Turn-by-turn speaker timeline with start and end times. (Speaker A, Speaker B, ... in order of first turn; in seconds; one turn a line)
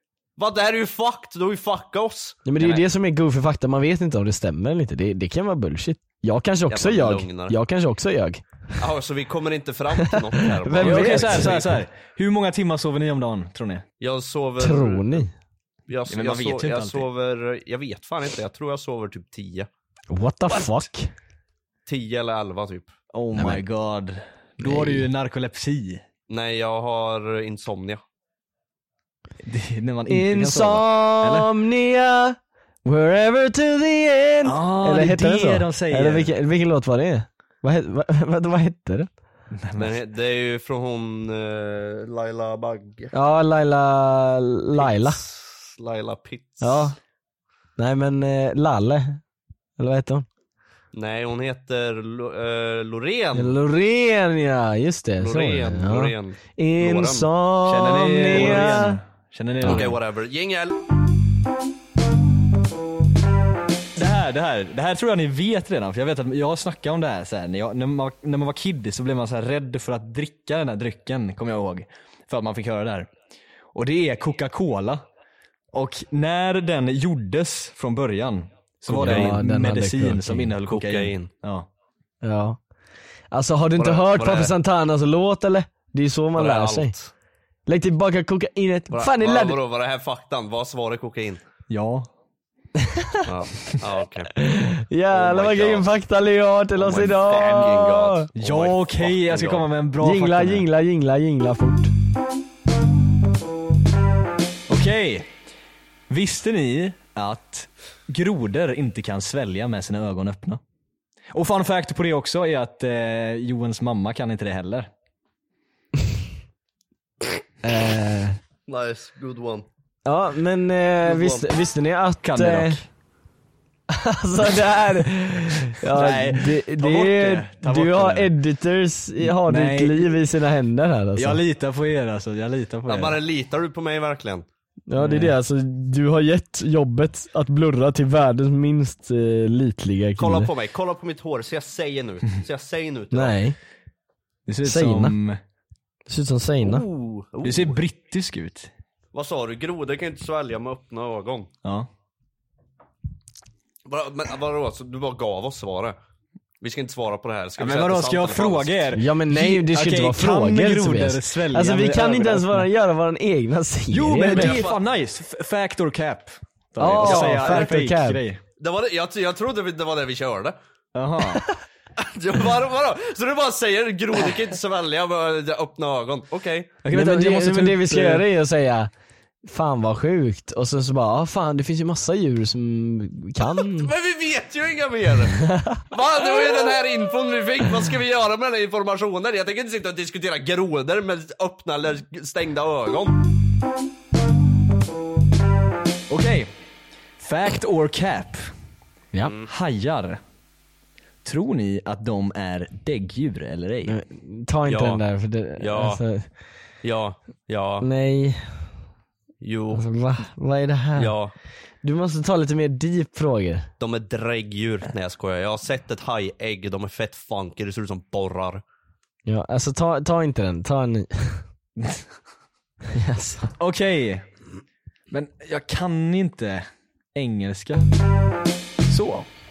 Speaker A: 0.4-2.8
Speaker B: 2.5-8.4
Speaker A: 6.7-7.5
Speaker A: 8.8-11.7
Speaker B: 10.1-11.6
Speaker C: 10.8-13.8
Speaker A: 14.0-15.2
Speaker B: 14.6-15.3
Speaker A: 15.9-19.7
Speaker C: 16.1-17.1
Speaker B: 20.1-21.1
Speaker A: 20.5-20.8
Speaker A: 21.9-22.9
Speaker C: 23.1-26.0
Speaker B: 23.4-23.6
Speaker B: 24.6-25.1
Speaker A: 26.3-28.0
Speaker C: 29.4-31.5
Speaker B: 30.1-39.1
Speaker C: 34.4-36.3
Speaker C: 39.5-40.0
Speaker A: 39.8-43.1
Speaker B: 43.1-45.2
Speaker A: 44.8-46.9
Speaker B: 46.6-46.9
Speaker B: 47.8-49.2
Speaker B: 49.8-50.2
Speaker A: 50.9-53.5
Speaker B: 53.4-59.0
Speaker A: 55.2-57.3
Speaker C: 57.6-60.0
Speaker A: 58.3-58.7
Speaker B: 59.6-59.9
Speaker A: 59.6-60.8
Speaker C: 64.0-73.1
Speaker C: 73.7-75.0
Speaker C: 75.7-81.7
Speaker B: 78.9-80.5
Speaker A: 79.0-79.3
Speaker A: 80.7-81.3
Speaker B: 82.2-82.6
Speaker B: 83.3-86.9
Speaker A: 83.8-84.5
Speaker A: 86.3-87.1
Speaker B: 87.7-89.6
Speaker A: 88.9-91.4
Speaker C: 91.7-92.1
Speaker A: 93.2-94.3
Speaker B: 94.4-98.3
Speaker A: 95.1-95.9
Speaker A: 96.8-99.7
Speaker C: 98.3-100.7
Speaker B: 100.0-101.9
Speaker C: 104.7-105.3
Speaker C: 106.1-110.6
Speaker C: 111.3-114.9
Speaker B: 117.6-118.4
Speaker A: 118.7-119.7
Speaker B: 120.0-122.8
Speaker A: 121.0-121.5
Speaker C: 122.2-122.8
Speaker B: 123.9-131.4
Speaker C: 125.8-128.3
Speaker C: 129.2-130.2
Speaker C: 131.2-133.2
Speaker A: 132.9-134.4
Speaker B: 134.9-140.5
Speaker C: 134.9-135.3
Speaker A: 140.2-143.3
Speaker B: 143.1-143.6
Speaker C: 144.4-145.4
Speaker B: 144.6-145.2
Speaker B: 146.1-146.8
Speaker A: 146.6-147.8
Speaker C: 147.4-148.7
Speaker A: 149.1-151.5
Speaker C: 151.6-151.9
Speaker A: 153.8-156.0
Speaker A: 156.6-158.8
Speaker C: 157.6-162.7
Speaker B: 158.9-164.6
Speaker C: 163.9-168.4
Speaker A: 164.3-164.8
Speaker B: 166.8-168.2
Speaker A: 167.0-167.7
Speaker A: 168.6-170.6
Speaker C: 170.9-171.4
Speaker A: 172.0-176.8
Speaker C: 176.8-178.2
Speaker B: 176.9-178.9
Speaker B: 179.4-183.9
Speaker A: 183.4-193.2
Speaker B: 185.5-185.8
Speaker C: 196.1-196.5
Speaker C: 197.2-198.4
Speaker C: 199.5-200.2
Speaker C: 201.2-204.0
Speaker B: 203.9-206.3
Speaker A: 204.7-205.0
Speaker A: 205.6-206.0
Speaker A: 206.8-207.8
Speaker B: 207.8-208.4
Speaker A: 209.4-209.8
Speaker B: 209.7-211.2
Speaker A: 210.9-211.3
Speaker B: 211.8-213.7
Speaker A: 213.8-218.6
Speaker B: 219.2-221.4
Speaker C: 221.8-222.0
Speaker B: 222.9-223.5
Speaker C: 223.6-224.2
Speaker C: 225.1-227.9
Speaker C: 228.9-229.3